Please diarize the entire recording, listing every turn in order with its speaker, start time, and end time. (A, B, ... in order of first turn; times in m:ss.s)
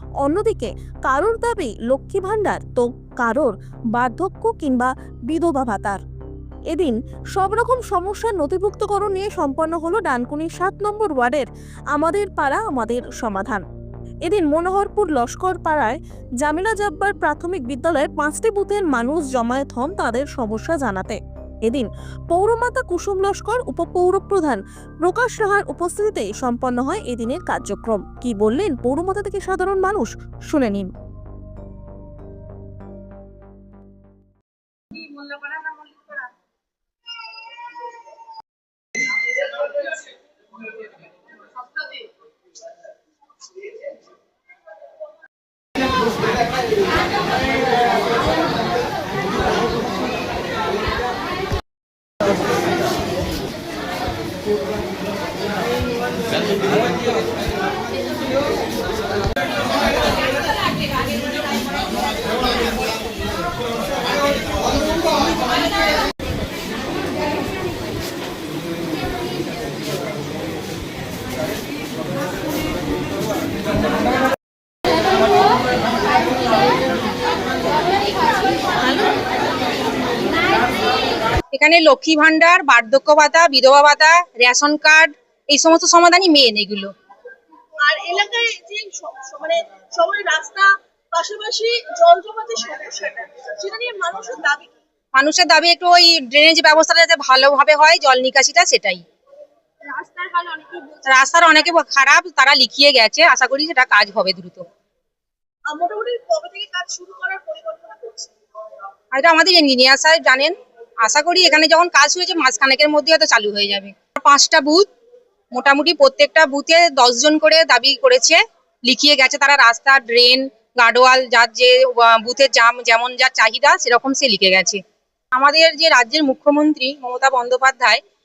0:00.2-0:06.0 A
0:06.7-0:13.6 A
0:14.2-0:30.9 A
1:21.5-1:26.9 B
1:27.8-1:34.7 C
1:35.1-1:39.0 B
1:40.0-1:41.0 C
1:41.0-1:44.6 B
1:45.7-1:48.3 C
1:49.1-1:50.5 B
1:51.0-1:54.9 B
1:55.5-2:04.8 B
2:05.3-2:08.0 B